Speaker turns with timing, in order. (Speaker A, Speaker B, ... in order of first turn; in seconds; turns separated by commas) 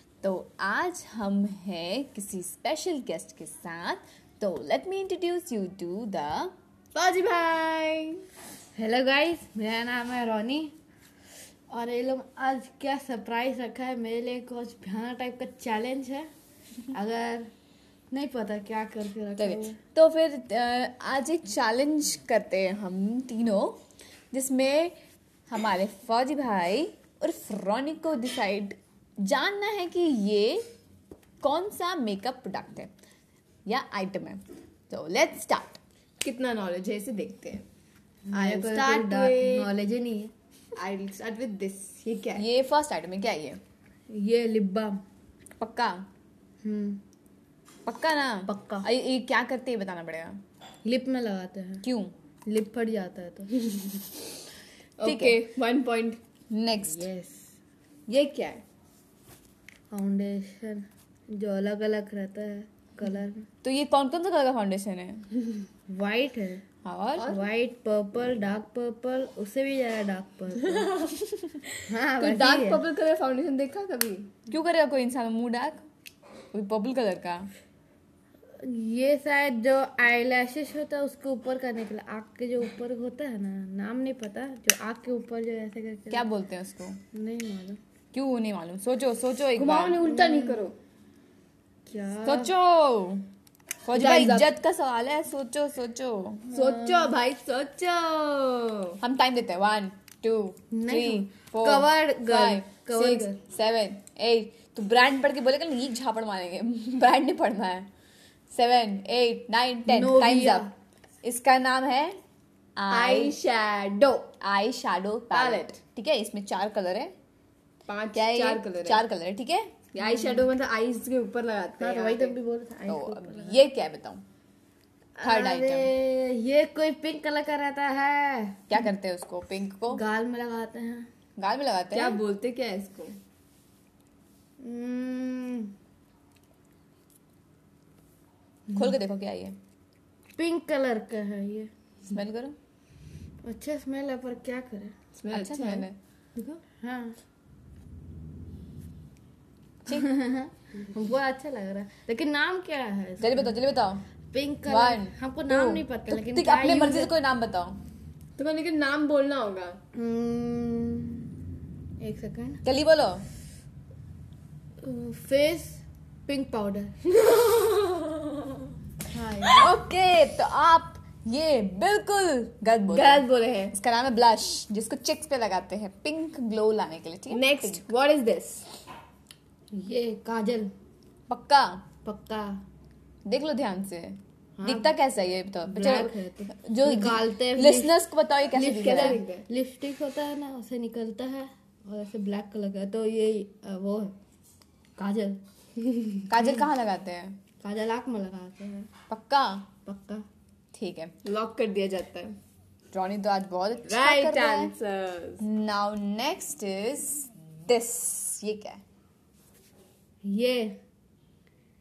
Speaker A: 0.2-6.5, Speaker B: 6.9-8.2, Speaker C: 8.7-10.7, Speaker C: 11.7-16.3, Speaker C: 16.9-17.5, Speaker C: 18.1-19.8, Speaker A: 19.4-23.8, Speaker A: 24.3-24.9, Speaker A: 25.5-30.6, Speaker A: 31.4-32.9, Speaker A: 33.7-35.8, Speaker B: 36.2-37.6, Speaker C: 38.3-40.3, Speaker B: 38.3-39.7, Speaker B: 40.8-42.5, Speaker A: 42.4-43.6, Speaker C: 44.1-45.0, Speaker A: 45.6-46.1, Speaker C: 46.6-47.0, Speaker A: 47.9-50.4, Speaker C: 48.5-48.9, Speaker C: 50.8-51.8, Speaker A: 51.8-52.1, Speaker C: 52.5-54.0, Speaker B: 55.0-56.2, Speaker A: 55.0-55.4, Speaker A: 56.5-57.1, Speaker C: 56.9-57.5, Speaker B: 58.1-58.6, Speaker C: 59.9-63.5, Speaker A: 63.6-65.3, Speaker C: 65.9-66.6, Speaker A: 66.8-67.3, Speaker C: 67.2-71.1, Speaker B: 70.7-71.2, Speaker C: 71.9-72.8, Speaker B: 72.2-74.3, Speaker A: 74.5-75.8, Speaker A: 76.5-77.5, Speaker C: 78.6-86.3, Speaker A: 86.1-87.0, Speaker C: 87.1-87.8, Speaker A: 88.1-90.1, Speaker B: 89.6-90.8, Speaker C: 90.0-90.7, Speaker C: 91.9-92.5, Speaker A: 92.2-93.3, Speaker A: 93.9-96.5, Speaker B: 93.9-94.5, Speaker C: 96.5-97.1, Speaker B: 96.5-99.0, Speaker A: 99.0-107.9, Speaker C: 100.7-103.4, Speaker A: 108.5-110.7, Speaker C: 109.9-110.7, Speaker A: 111.2-112.2, Speaker A: 112.8-113.3, Speaker B: 112.9-114.3, Speaker A: 114.4-117.1, Speaker B: 115.3-115.8, Speaker B: 117.9-119.0, Speaker A: 118.1-119.7, Speaker B: 119.9-122.4, Speaker C: 120.0-120.5, Speaker C: 121.8-123.6, Speaker A: 122.9-124.2, Speaker C: 125.2-128.7, Speaker A: 125.2-125.9, Speaker A: 128.7-130.0, Speaker C: 129.9-131.1, Speaker A: 131.4-132.2, Speaker B: 131.9-133.2, Speaker C: 134.6-135.7, Speaker A: 138.7-139.6, Speaker C: 140.4-141.7, Speaker A: 142.1-142.6, Speaker C: 143.4-145.0, Speaker B: 145.2-146.6, Speaker A: 145.3-146.0, Speaker C: 146.8-147.2, Speaker C: 149.9-153.6, Speaker A: 153.2-154.0, Speaker C: 154.3-157.1, Speaker A: 154.7-157.8, Speaker B: 158.4-159.8, Speaker C: 160.0-161.3, Speaker C: 162.0-162.6, Speaker A: 162.7-163.2, Speaker C: 164.8-167.0, Speaker B: 167.2-168.2, Speaker C: 169.1-169.7, Speaker A: 169.6-177.9, Speaker B: 172.9-173.7, Speaker B: 177.3-178.6, Speaker C: 179.7-180.7, Speaker A: 181.3-181.8, Speaker C: 182.1-182.6, Speaker A: 183.2-189.2, Speaker C: 184.6-184.9, Speaker C: 185.7-187.9, Speaker B: 188.5-189.4, Speaker C: 188.6-194.2, Speaker C: 195.0-195.4, Speaker A: 196.3-197.4, Speaker C: 197.6-198.9, Speaker A: 199.1-199.7, Speaker C: 199.8-200.2, Speaker A: 200.7-201.2, Speaker B: 201.2-202.4, Speaker A: 202.9-204.7, Speaker B: 203.8-205.4, Speaker A: 205.4-208.8, Speaker C: 210.2-210.8